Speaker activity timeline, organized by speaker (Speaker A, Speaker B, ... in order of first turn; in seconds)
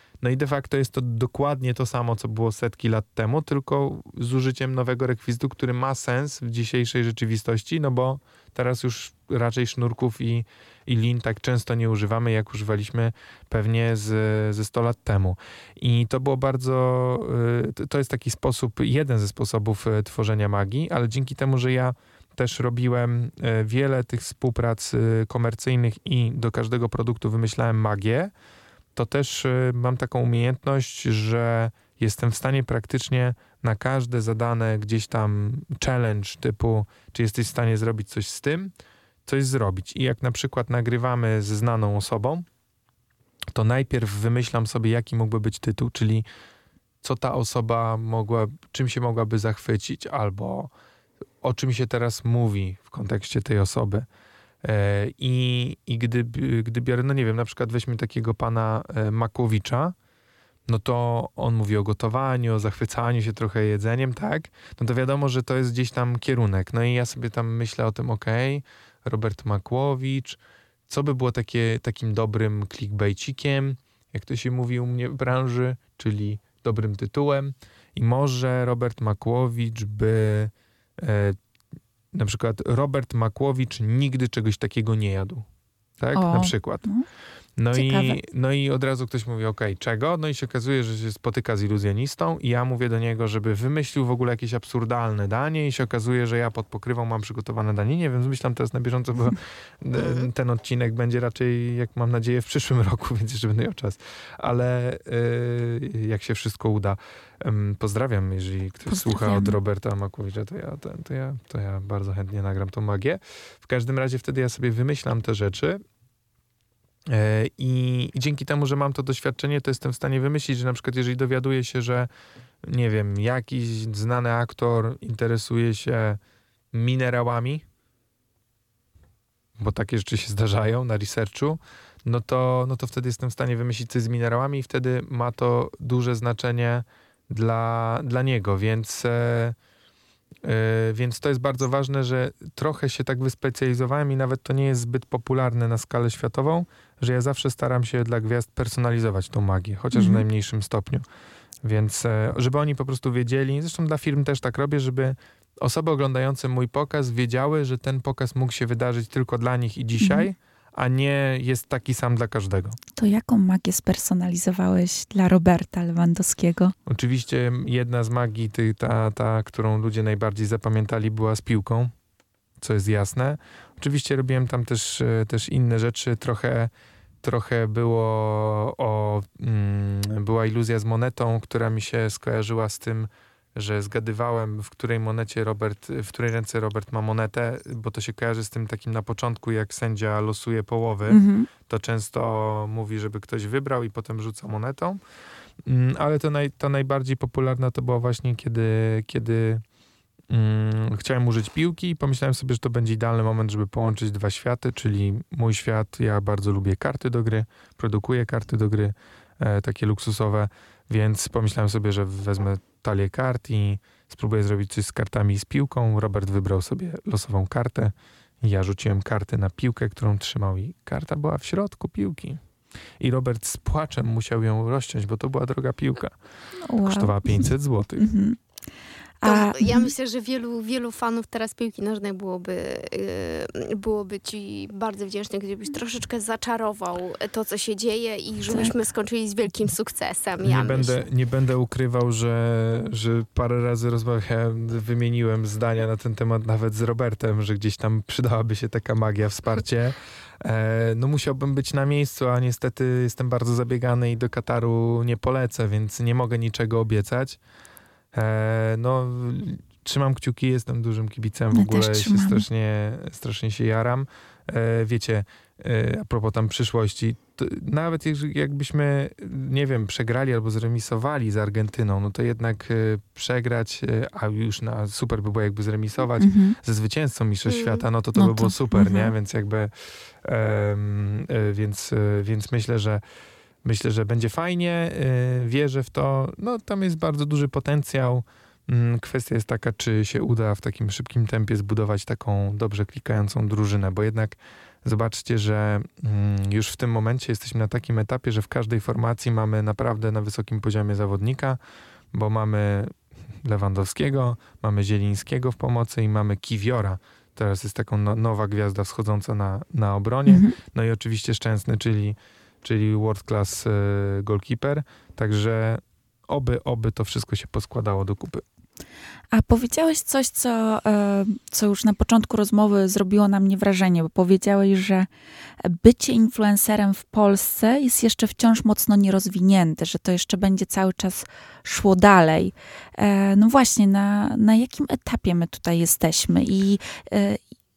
Speaker A: 0.2-28.3, 28.9-38.7, 39.2-42.5, 43.5-46.2, 47.0-50.7, 51.4-54.1, 54.6-59.9, 60.7-81.4, 82.1-85.4, 86.0-86.9, 87.6-115.8, 117.1-122.1, 122.6-126.2, 126.7-127.6, 129.6-139.6, 140.4-151.0, 151.6-162.8, 166.8-171.9, 172.6-195.0, 195.7-199.6, 200.3-222.4, 223.0-226.2, 226.8-228.1, 240.4-257.4, 258.1-279.7, 280.2-283.0, 283.6-301.6, 302.1-318.4
Speaker B: 86.1-87.0, 87.7-88.2, 108.9-109.6, 149.9-150.2, 160.0-160.3, 162.9-166.7, 191.1-191.5, 226.6-228.4, 229.2-229.9, 261.5-262.4, 276.2-276.6, 278.1-279.1, 310.3-310.6, 319.3-325.1, 325.6-337.4
Speaker C: 229.2-241.0, 277.5-277.8